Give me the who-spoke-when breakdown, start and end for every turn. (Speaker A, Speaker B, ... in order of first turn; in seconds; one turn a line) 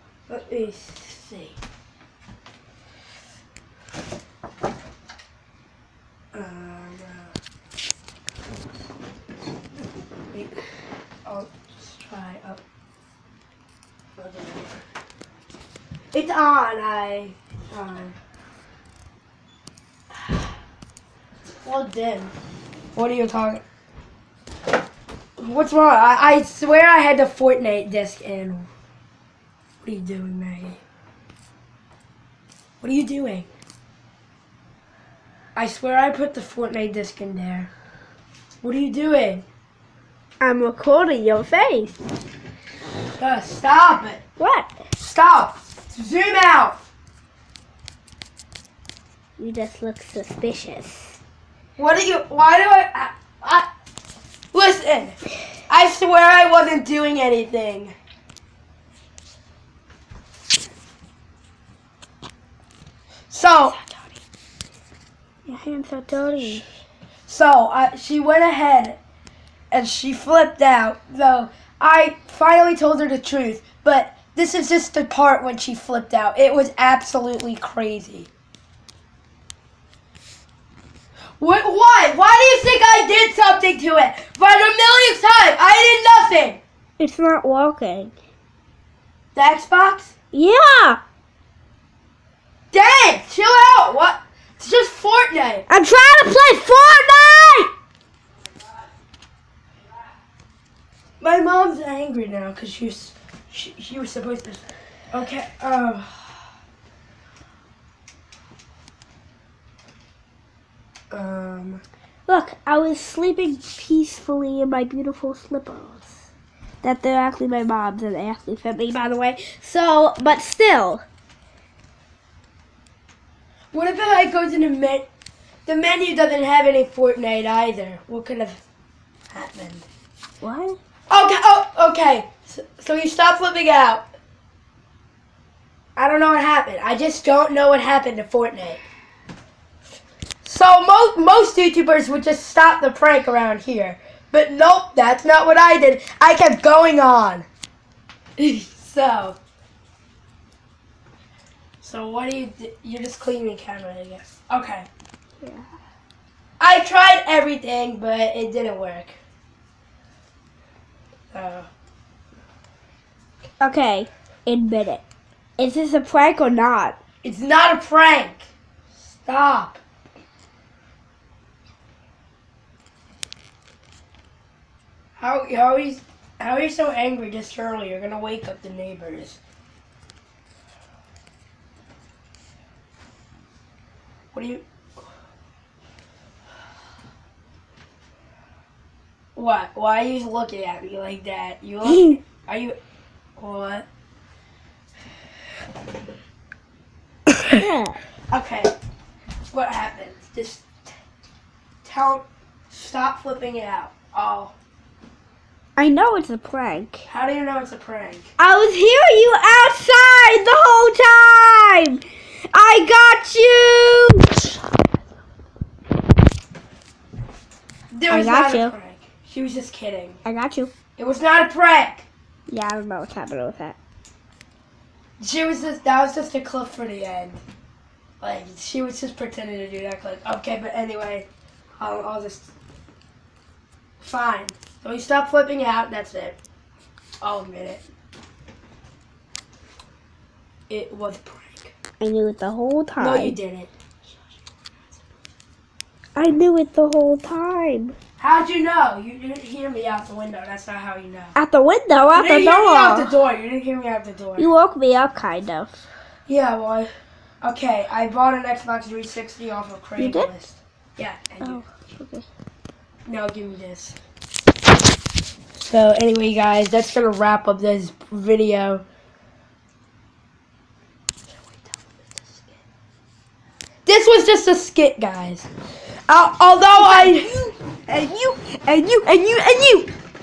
Speaker A: 0.3-1.6
Speaker A: 6.3-7.3
Speaker A: 10.3-10.6
Speaker A: 11.2-12.6
Speaker A: 14.2-14.8
Speaker A: 16.1-18.2
Speaker A: 20.1-20.6
Speaker A: 21.5-22.3
Speaker A: 22.9-23.6
Speaker A: 25.4-28.7
Speaker A: 29.8-30.8
Speaker A: 32.8-33.5
Speaker A: 35.6-37.7
Speaker A: 38.6-39.5
Speaker B: 40.4-42.0
Speaker A: 43.1-44.2
Speaker B: 44.4-44.8
Speaker A: 45.0-46.8
Speaker B: 49.4-51.2
Speaker A: 51.8-53.7
Speaker A: 54.5-58.0
Speaker A: 63.3-63.8
Speaker B: 63.7-64.2
Speaker B: 65.5-66.6
Speaker A: 67.3-69.0
Speaker A: 69.7-78.3
Speaker A: 81.4-86.6
Speaker B: 87.0-88.1
Speaker A: 89.3-90.1
Speaker B: 90.3-91.0
Speaker A: 92.7-95.7
Speaker B: 95.7-97.7
Speaker A: 101.2-106.5
Speaker A: 111.1-111.8
Speaker B: 112.3-116.2
Speaker B: 116.8-121.0
Speaker A: 123.7-125.1
Speaker A: 125.7-128.6
Speaker A: 129.3-129.9
Speaker B: 130.4-130.8
Speaker A: 131.1-134.1
Speaker A: 136.0-138.8
Speaker A: 140.4-147.5
Speaker A: 148.4-149.4
Speaker A: 151.8-154.9
Speaker B: 155.4-155.7
Speaker A: 156.6-159.2
Speaker A: 161.3-161.7
Speaker B: 163.6-165.0
Speaker B: 165.6-167.0
Speaker A: 167.2-169.8
Speaker A: 175.2-179.4
Speaker A: 184.3-184.6
Speaker A: 189.4-192.8
Speaker A: 193.4-193.9
Speaker B: 197.4-198.0
Speaker A: 198.3-198.7
Speaker A: 199.5-200.9
Speaker A: 201.8-204.5
Speaker B: 205.8-207.1
Speaker A: 207.1-208.3
Speaker B: 208.4-214.5
Speaker A: 217.9-220.2
Speaker B: 218.1-218.8
Speaker B: 220.2-220.7
Speaker A: 221.0-222.1
Speaker B: 222.5-223.8
Speaker A: 225.2-227.4
Speaker A: 228.2-231.3
Speaker A: 231.8-232.5
Speaker A: 234.0-236.4
Speaker A: 237.2-237.8
Speaker A: 240.7-241.7
Speaker B: 242.0-243.4
Speaker A: 243.0-245.0
Speaker B: 246.2-248.0
Speaker A: 248.2-251.3
Speaker B: 251.3-253.2
Speaker A: 252.1-254.5
Speaker B: 254.4-255.8
Speaker A: 256.3-256.9
Speaker A: 257.4-261.6
Speaker B: 260.0-260.3
Speaker B: 261.4-262.3
Speaker A: 263.1-264.0
Speaker A: 265.6-268.9
Speaker A: 271.3-272.6
Speaker A: 273.9-275.5
Speaker A: 276.1-277.3
Speaker B: 276.7-279.9